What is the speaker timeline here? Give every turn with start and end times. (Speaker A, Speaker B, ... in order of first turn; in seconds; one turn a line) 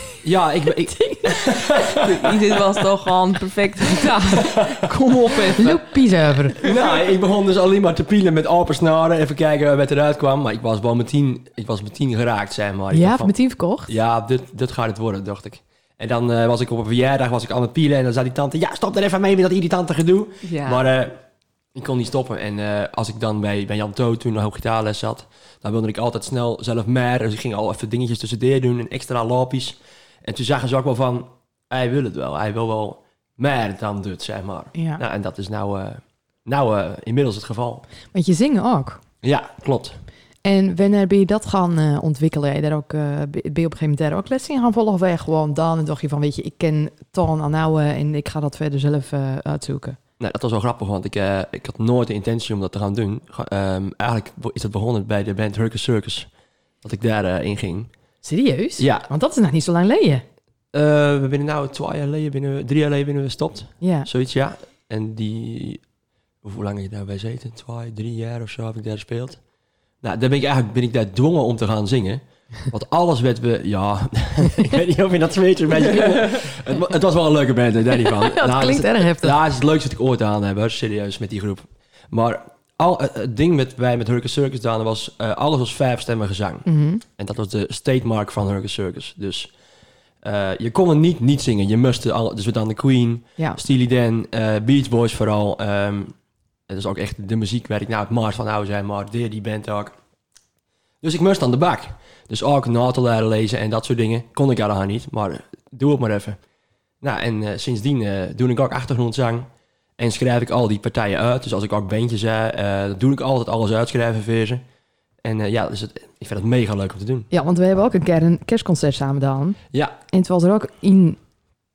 Speaker A: 0.2-2.3
Speaker B: 0.9-1.5
Speaker C: 1.8-5.8
Speaker A: 4.5-4.9
Speaker B: 5.6-6.7
Speaker A: 6.6-13.3
Speaker B: 12.9-14.0
Speaker A: 13.9-21.1
Speaker C: 20.4-20.8
Speaker A: 21.8-37.8
Speaker B: 34.8-35.0
Speaker B: 38.1-39.0
Speaker A: 39.2-40.0
Speaker B: 40.4-50.0
Speaker A: 50.2-56.3
Speaker A: 56.8-57.9
Speaker B: 58.2-60.2
Speaker A: 58.8-59.1
Speaker A: 60.7-65.8
Speaker B: 63.8-64.1
Speaker A: 66.4-69.4
Speaker A: 70.0-89.5
Speaker B: 78.0-79.4
Speaker B: 86.7-87.0
Speaker A: 90.2-96.1
Speaker A: 96.7-100.0
Speaker A: 101.0-106.4
Speaker A: 107.0-114.6
Speaker A: 115.2-117.3
Speaker B: 117.3-119.6
Speaker B: 120.1-121.2